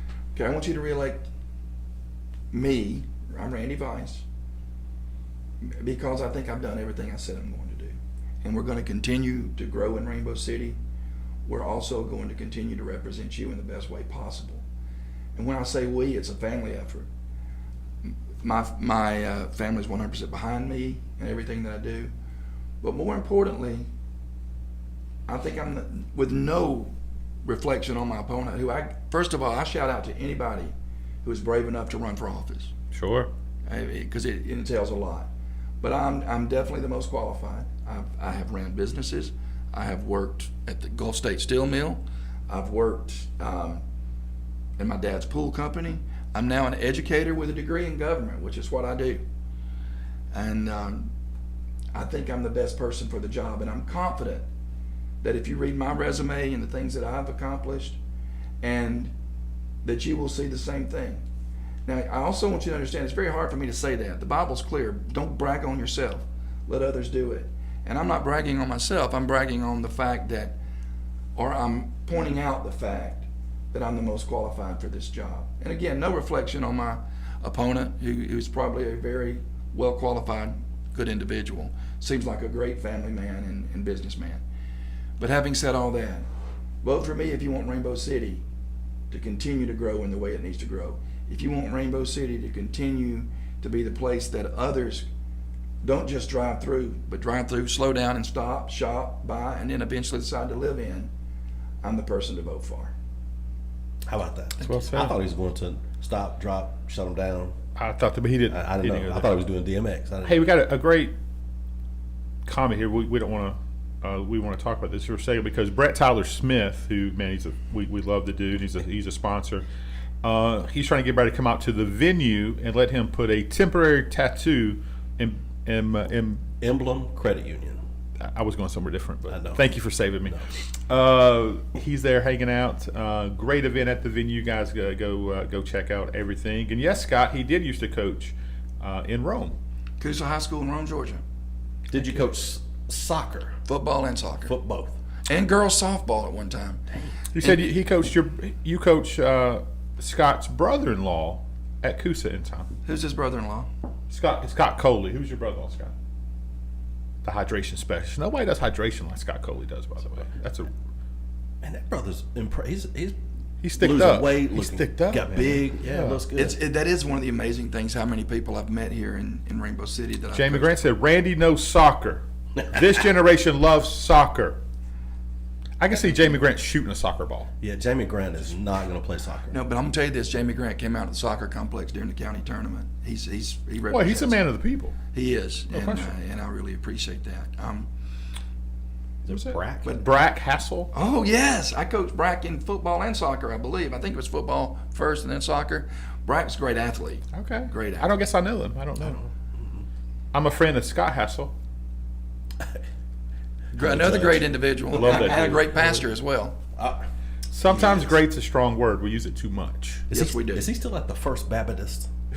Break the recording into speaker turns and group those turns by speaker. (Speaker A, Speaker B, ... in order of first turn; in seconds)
Speaker A: 0.3-1.3, 2.5-4.2, 5.6-10.8, 11.5-14.6, 15.4-17.1, 18.0-22.1, 22.8-23.9, 25.3-32.7, 33.7-35.3, 35.8-43.8, 44.8-49.2, 50.3-51.1, 51.9-54.5, 55.2-58.0, 58.6-59.1, 59.8-61.2, 61.9-70.6, 71.4-84.4, 85.2-86.3, 86.8-88.4, 89.1-95.1, 95.8-101.1, 101.8-102.9, 140.0-141.2, 143.7-144.6, 145.3-146.8, 152.8-153.7, 166.3-170.8, 176.0-176.4, 179.5-184.4, 185.1-187.9, 190.9-198.1, 203.7-206.6, 210.1-210.7
Speaker B: 32.9-33.3, 104.6-105.2, 107.8-109.4, 110.2-111.1, 112.5-119.7, 120.2-126.4, 128.2-139.6, 147.3-152.7, 154.1-155.9, 157.2-160.7, 163.6-166.2, 170.3-174.6, 175.8-177.5, 183.9-185.0, 185.7-186.1, 189.3-190.9, 197.3-199.2, 200.3-201.5, 205.0-205.3, 207.5-210.1
Speaker C: 104.1-107.5, 108.5-110.5, 126.6-127.8, 129.3-129.6, 141.9-143.6, 144.5-145.0, 161.6-163.2, 163.7-166.6, 177.6-179.6, 189.3-190.0, 199.0-199.8, 203.8-206.0, 206.8-207.1, 207.7-208.2, 210.1-212.1